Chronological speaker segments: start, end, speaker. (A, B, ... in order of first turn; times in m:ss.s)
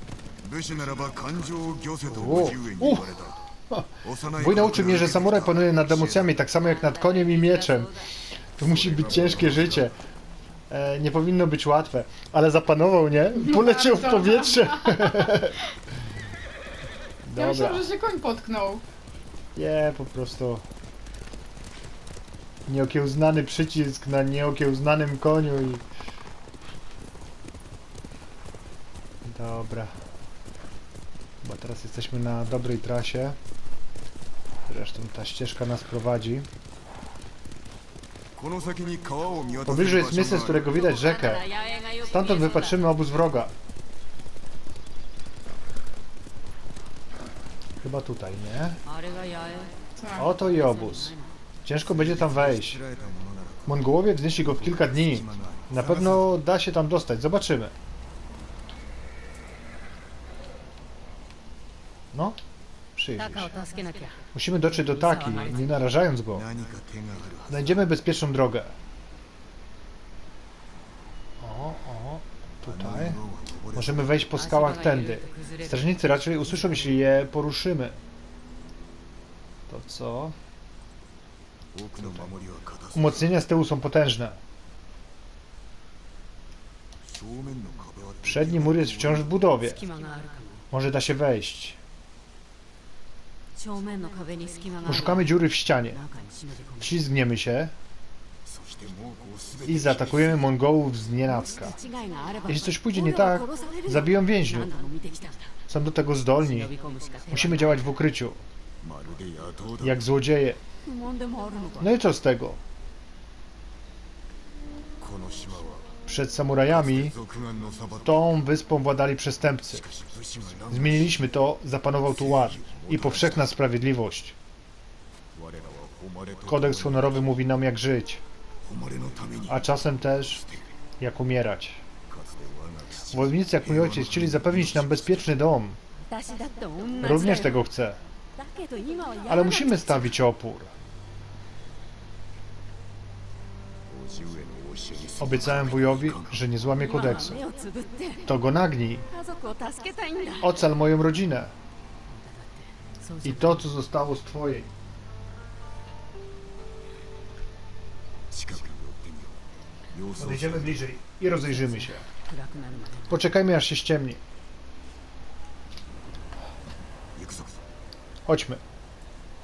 0:00.4-0:03.4 A
0:02.1-0:08.0 B
0:04.0-0:06.4 A
0:06.6-0:08.1 C
0:08.6-0:10.0 B
0:08.6-0:09.9 A
0:10.7-0:15.6 B
0:13.4-0:15.5 D
0:17.2-0:17.9 B
0:17.4-0:18.8 D
0:19.6-0:20.6 B
0:22.7-0:25.8 B
0:29.2-0:29.9 B
0:31.4-0:33.4 B
0:34.7-0:36.5 B
0:38.4-0:40.8 A
0:39.7-0:41.4 B
0:40.6-0:42.8 C
0:42.0-0:43.5 B
0:47.8-0:48.8 B
0:48.8-0:51.3 C
0:50.0-0:50.3 D
0:50.2-0:51.1 B
0:51.6-0:52.8 B
0:51.8-0:53.8 A
0:53.7-0:57.7 B
0:54.4-0:56.3 A
1:03.0-1:03.5 B
1:03.2-1:05.9 C
1:04.4-1:06.5 B
1:06.3-1:07.9 A
1:07.5-1:08.7 B
1:11.4-1:13.2 B
1:12.7-1:14.2 A
1:13.8-1:18.0 B
1:14.4-1:15.9 C
1:19.7-1:20.4 B
1:21.7-1:23.3 A
1:22.9-1:24.4 B
1:27.0-1:29.4 A
1:28.2-1:29.8 B
1:29.7-1:30.7 C
1:30.7-1:31.8 B
1:33.6-1:35.3 C
1:34.9-1:36.0 B
1:35.9-1:36.9 C
1:36.8-1:37.7 B
1:38.4-1:40.5 A
1:39.7-1:41.8 B
1:41.6-1:45.5 C
1:42.5-1:44.7 B
1:45.7-1:46.7 B
1:46.4-1:47.9 C
1:47.3-1:48.4 B
1:48.8-1:50.0 A
1:49.8-1:50.6 B
1:50.8-1:51.9 C
1:51.8-1:52.6 B
1:55.0-1:55.9 A
1:56.1-1:57.2 B
1:56.7-1:58.3 A
1:58.0-1:59.9 B
1:59.7-2:01.3 A
2:00.7-2:04.4 B
2:02.1-2:03.5 A
2:05.3-2:07.2 A
2:06.5-2:08.2 B
2:08.6-2:10.6 A
2:09.5-2:10.4 B
2:11.0-2:11.8 B
2:12.1-2:15.3 A
2:13.1-2:15.8 B
2:16.1-2:17.6 C
2:17.0-2:18.0 B
2:18.4-2:20.2 C
2:19.3-2:20.7 B
2:23.9-2:26.4 A
2:25.2-2:27.4 B
2:26.7-2:28.3 C
2:28.3-2:29.1 B
2:29.1-2:30.6 C
2:30.4-2:31.5 B
2:32.1-2:33.6 C
2:33.2-2:34.7 B
2:38.3-2:39.4 A
2:39.9-2:40.8 A
2:40.2-2:42.1 B
2:42.1-2:43.2 C
2:43.1-2:44.2 B
2:47.2-2:47.6 A
2:48.3-2:48.6 B